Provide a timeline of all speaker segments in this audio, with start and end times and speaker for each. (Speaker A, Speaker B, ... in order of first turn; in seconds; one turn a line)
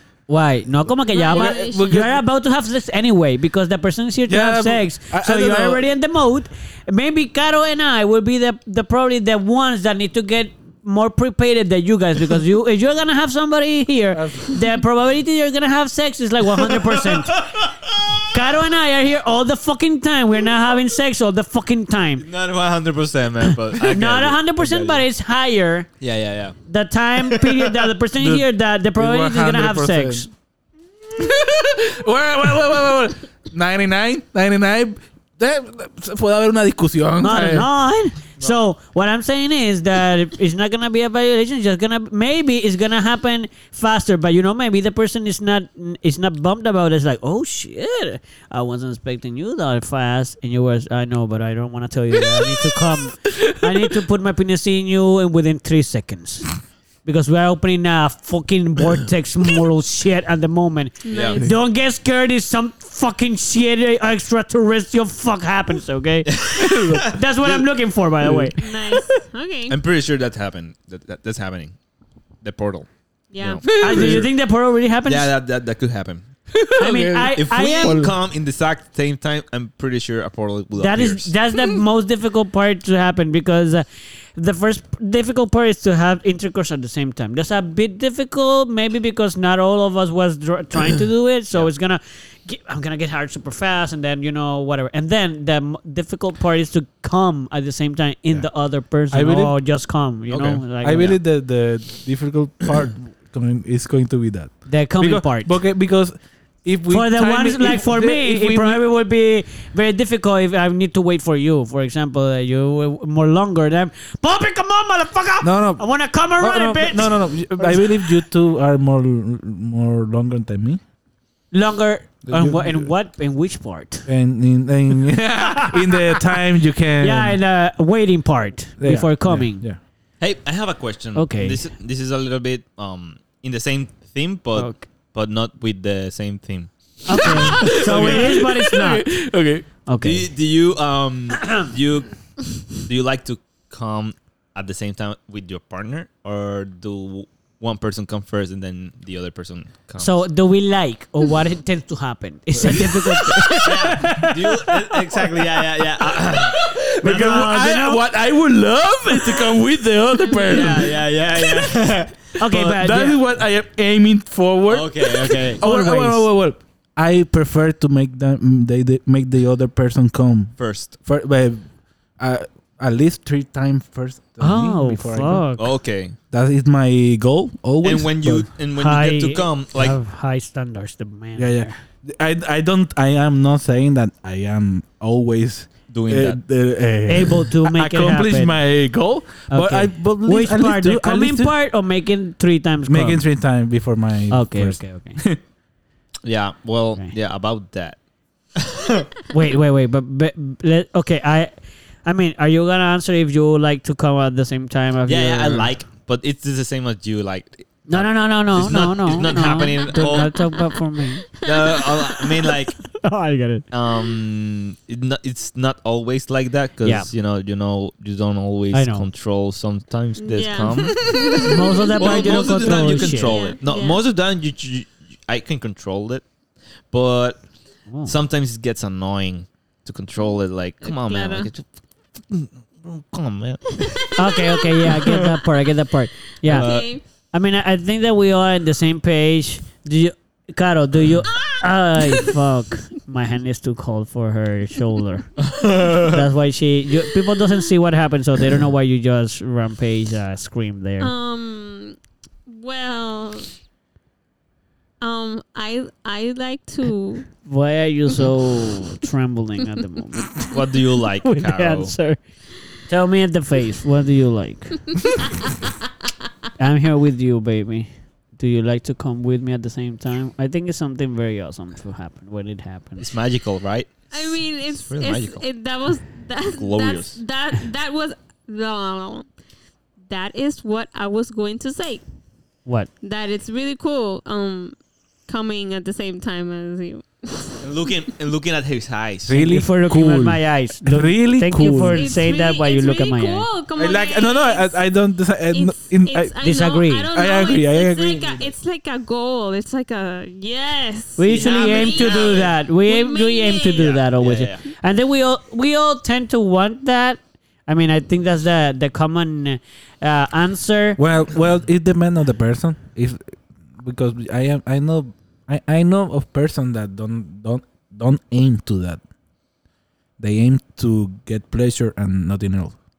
Speaker A: 0.3-17.5
Speaker B: 1.1-2.1
Speaker C: 1.3-2.2
Speaker C: 4.3-5.8
Speaker C: 14.1-14.5
Speaker D: 16.6-18.3
Speaker A: 18.3-22.3
Speaker D: 22.2-25.0
Speaker A: 23.8-25.9
Speaker D: 26.0-26.6
Speaker A: 26.7-30.3
Speaker C: 28.2-30.3
Speaker C: 31.1-37.7
Speaker A: 37.2-56.5
Speaker C: 53.4-53.9
Speaker A: 57.0-68.7
Speaker B: 61.0-61.5
Speaker D: 61.1-61.4
Speaker D: 66.3-67.7
Speaker C: 66.6-67.1
Speaker C: 68.2-68.5
Speaker B: 68.6-69.8
Speaker D: 69.7-71.8
Speaker D: 72.4-74.3
Speaker B: 73.3-73.7
Speaker C: 73.7-74.3
Speaker A: 73.8-75.3
Speaker D: 75.1-76.3
Speaker C: 76.5-78.1
Speaker A: 76.8-78.0
Speaker D: 77.3-81.3
Speaker A: 80.8-101.2
Speaker C: 99.1-99.6
Speaker D: 100.3-100.6
Speaker C: 100.3-108.8
Speaker A: 104.7-105.5
Speaker A: 106.9-118.2
Speaker C: 115.4-115.8
Speaker C: 116.4-120.8
Speaker A: 121.5-124.1
Speaker C: 122.3-122.9
Speaker C: 124.1-127.4
Speaker A: 125.4-126.2
Speaker A: 127.0-129.6
Speaker C: 128.8-129.8
Speaker D: 130.2-138.4
Speaker A: 131.2-131.6
Speaker A: 134.6-134.9
Speaker A: 137.1-139.2
Speaker C: 137.1-139.7
Speaker A: 139.9-140.3
Speaker D: 140.0-150.2
Speaker A: 141.4-141.7
Speaker A: 150.0-154.8
Speaker C: 152.6-154.1
Speaker D: 153.6-157.5
Speaker C: 156.6-161.0
Speaker A: 157.0-158.0
Speaker A: 159.1-159.4
Speaker B: 160.2-160.8
Speaker D: 160.5-162.2
Speaker A: 162.4-163.2
Speaker C: 162.4-171.7
Speaker D: 164.7-165.6
Speaker A: 165.6-166.3
Speaker D: 170.6-170.9
Speaker C: 172.2-175.4
Speaker A: 174.4-175.7
Speaker D: 175.6-176.2
Speaker C: 176.3-178.5
Speaker D: 177.8-180.0
Speaker A: 178.7-181.8
Speaker C: 181.3-191.5
Speaker D: 185.9-186.4
Speaker A: 187.1-188.6
Speaker A: 189.5-193.2
Speaker C: 192.9-195.4
Speaker A: 194.3-195.2
Speaker D: 196.2-198.0
Speaker D: 198.6-199.1
Speaker A: 199.3-201.5
Speaker A: 202.1-205.7
Speaker D: 205.1-210.3
Speaker A: 207.9-211.2
Speaker B: 209.7-212.4
Speaker D: 211.4-212.8
Speaker A: 213.0-213.7
Speaker D: 213.7-221.4
Speaker A: 216.8-217.1
Speaker A: 218.7-219.1
Speaker B: 220.2-224.0
Speaker A: 221.4-223.5
Speaker D: 222.0-226.2
Speaker D: 226.9-227.4
Speaker A: 227.9-228.2
Speaker D: 228.0-231.7
Speaker B: 230.8-231.5
Speaker D: 232.2-234.1
Speaker B: 233.8-235.4
Speaker A: 234.2-251.1
Speaker D: 236.4-236.9
Speaker B: 236.5-237.0
Speaker B: 241.3-242.4
Speaker D: 245.4-246.2
Speaker B: 251.0-253.5
Speaker B: 255.0-257.3
Speaker A: 257.4-260.6
Speaker D: 260.5-261.9
Speaker A: 261.2-262.2
Speaker A: 262.9-265.1
Speaker A: 266.6-273.1
Speaker D: 273.0-275.4
Speaker B: 274.1-279.3
Speaker D: 276.6-277.2
Speaker B: 280.1-282.0
Speaker B: 283.0-284.8
Speaker B: 285.3-287.6
Speaker D: 287.6-289.4
Speaker C: 289.3-292.3
Speaker A: 289.3-293.5
Speaker B: 291.9-294.8
Speaker C: 293.8-296.3
Speaker B: 295.5-304.0
Speaker A: 296.4-297.1
Speaker C: 297.1-298.5
Speaker A: 301.2-311.0
Speaker D: 301.3-302.5
Speaker D: 303.8-304.6
Speaker C: 311.0-319.0
Speaker C: 320.2-322.8